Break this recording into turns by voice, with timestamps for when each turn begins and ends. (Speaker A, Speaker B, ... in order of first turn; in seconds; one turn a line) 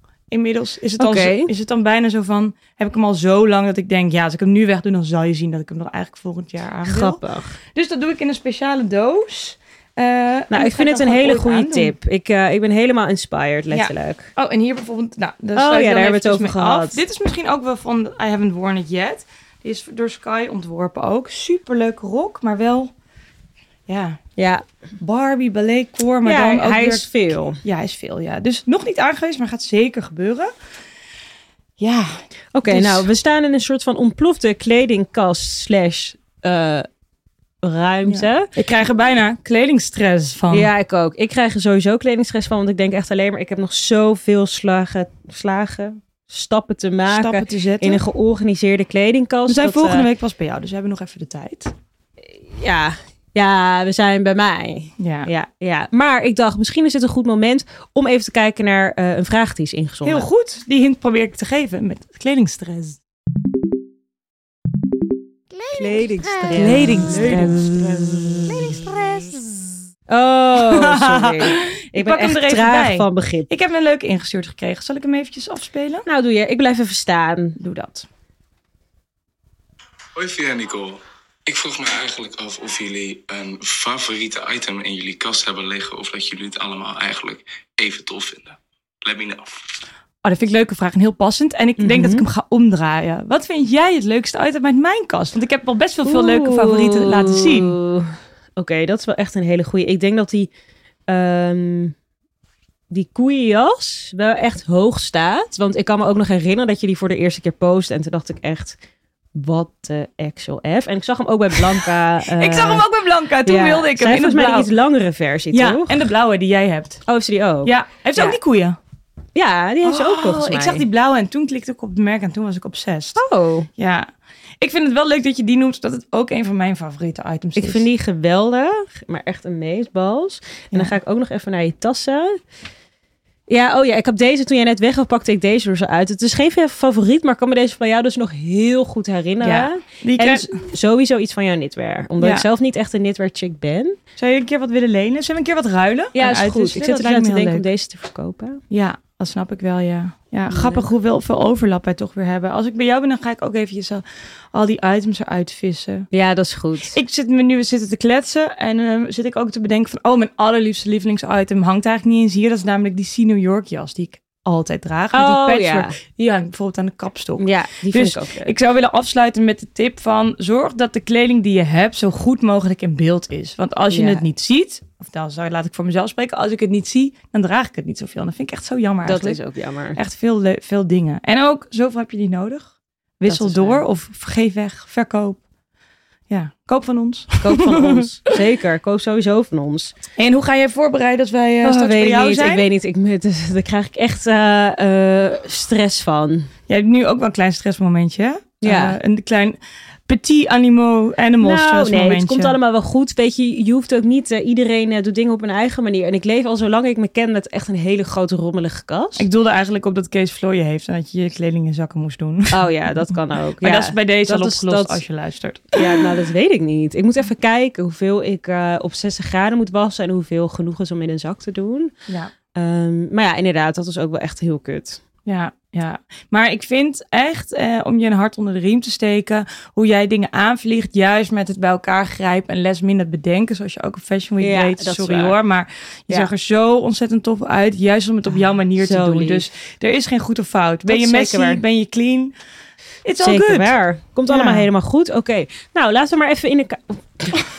Speaker A: 0.3-7.2
Speaker B: 1.0-1.5
Speaker B: 6.8-7.5
Speaker A: 7.7-11.9
Speaker B: 10.5-14.3
Speaker A: 13.7-22.9
Speaker B: 15.5-17.0
Speaker A: 23.9-24.2
Speaker B: 24.4-24.6
Speaker A: 25.0-30.5
Speaker B: 26.2-27.6
Speaker A: 31.8-33.1
Speaker B: 32.5-36.9
Speaker B: 37.6-38.5
Speaker A: 38.0-40.7
Speaker B: 40.5-50.1
Speaker A: 47.1-48.0
Speaker A: 49.5-51.7
Speaker B: 52.2-60.3
Speaker A: 55.0-55.3
Speaker A: 60.0-63.0
Speaker B: 65.7-73.5
Speaker A: 66.5-68.8
Speaker A: 70.5-76.0
Speaker B: 76.0-77.6
Speaker A: 77.6-78.1
Speaker C: 80.2-89.6
Speaker A: 90.2-97.8
Speaker B: 91.8-92.3
Speaker B: 96.0-100.5
Speaker B: 101.1-102.0
Speaker B: 102.9-108.8
Speaker B: 109.3-112.9
Speaker A: 112.3-114.7
Speaker B: 113.4-116.0
Speaker A: 115.5-117.0
Speaker B: 117.1-118.4
Speaker A: 117.6-118.8
Speaker B: 119.3-120.8
Speaker A: 119.8-123.2
Speaker B: 123.2-123.7
Speaker A: 123.8-124.1
Speaker A: 124.6-127.8
Speaker B: 127.5-132.3
Speaker A: 130.7-131.0
Speaker B: 133.5-144.0
Speaker A: 139.4-140.6
Speaker A: 142.2-142.5
Speaker A: 144.2-147.7
Speaker B: 146.1-148.6
Speaker A: 148.7-156.1
Speaker B: 150.5-150.9
Speaker B: 156.1-157.0
Speaker A: 156.9-179.4
Speaker B: 165.1-165.9
Speaker B: 167.4-168.5
Speaker B: 173.9-174.2
Speaker B: 179.0-180.0
Speaker A: 179.9-185.4
Speaker B: 183.2-183.8
Speaker A: 186.3-188.1
Speaker B: 187.4-190.0
Speaker A: 190.2-192.7
Speaker B: 191.6-196.5
Speaker A: 196.7-202.6
Speaker B: 198.6-199.0
Speaker B: 201.4-209.3
Speaker A: 209.2-212.6
Speaker B: 212.5-215.0
Speaker A: 213.6-216.0
Speaker B: 215.7-221.9
Speaker B: 222.5-225.0
Speaker A: 225.2-242.3
Speaker B: 234.4-235.4
Speaker B: 238.8-239.5
Speaker B: 240.8-241.6
Speaker A: 243.0-243.8
Speaker B: 243.2-247.3
Speaker A: 244.3-244.7